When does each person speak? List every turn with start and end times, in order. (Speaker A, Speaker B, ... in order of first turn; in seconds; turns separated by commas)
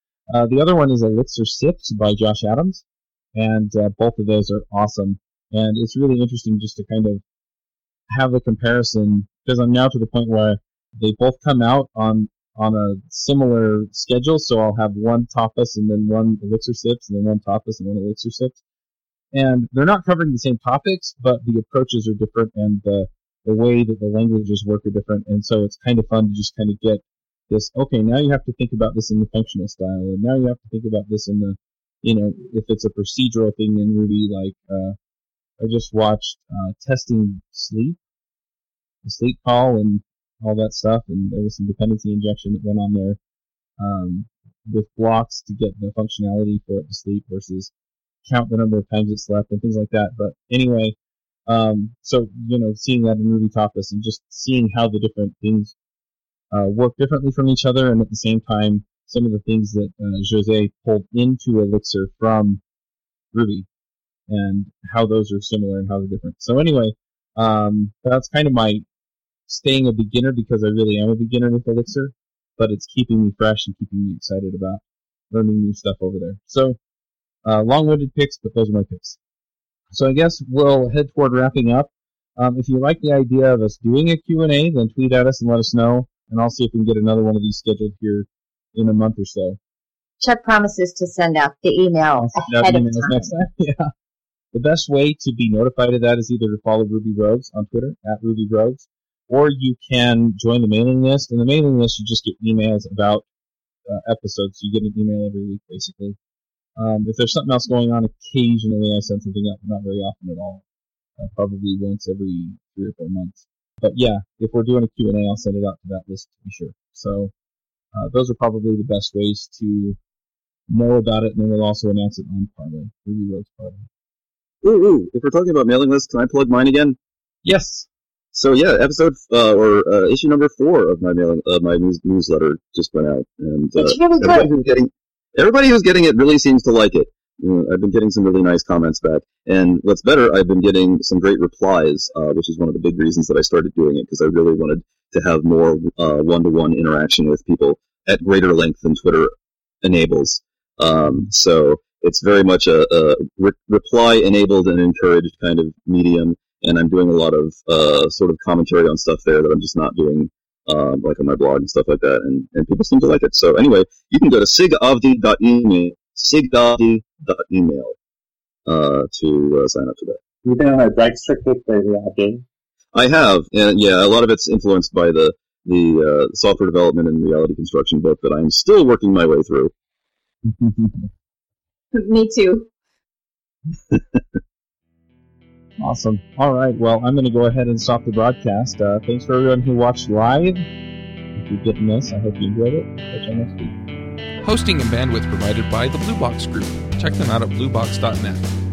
Speaker A: 0.3-7.2, Speaker A: 8.1-18.6, Speaker A: 19.3-35.0, Speaker A: 35.6-38.0, Speaker A: 39.0-43.2, Speaker A: 43.8-47.7, Speaker A: 48.2-51.0, Speaker A: 51.5-55.8, Speaker A: 56.5-62.6, Speaker A: 63.3-63.7, Speaker A: 64.3-68.8, Speaker A: 69.5-76.8, Speaker A: 77.4-79.2, Speaker A: 79.9-89.6, Speaker B: 90.2-93.4, Speaker A: 92.2-93.9, Speaker A: 94.5-103.3, Speaker A: 103.9-106.2, Speaker A: 106.8-110.6, Speaker A: 111.2-117.3, Speaker A: 117.9-120.0, Speaker A: 120.7-123.9, Speaker C: 124.6-127.0, Speaker A: 127.4-127.9, Speaker C: 128.3-149.3, Speaker B: 133.8-134.5, Speaker C: 149.8-168.0, Speaker C: 168.7-170.2, Speaker D: 170.4-172.4, Speaker C: 172.9-179.7, Speaker A: 180.4-181.1, Speaker B: 181.9-182.7, Speaker C: 183.9-184.2, Speaker A: 185.8-190.7, Speaker A: 191.3-193.8, Speaker E: 194.4-198.5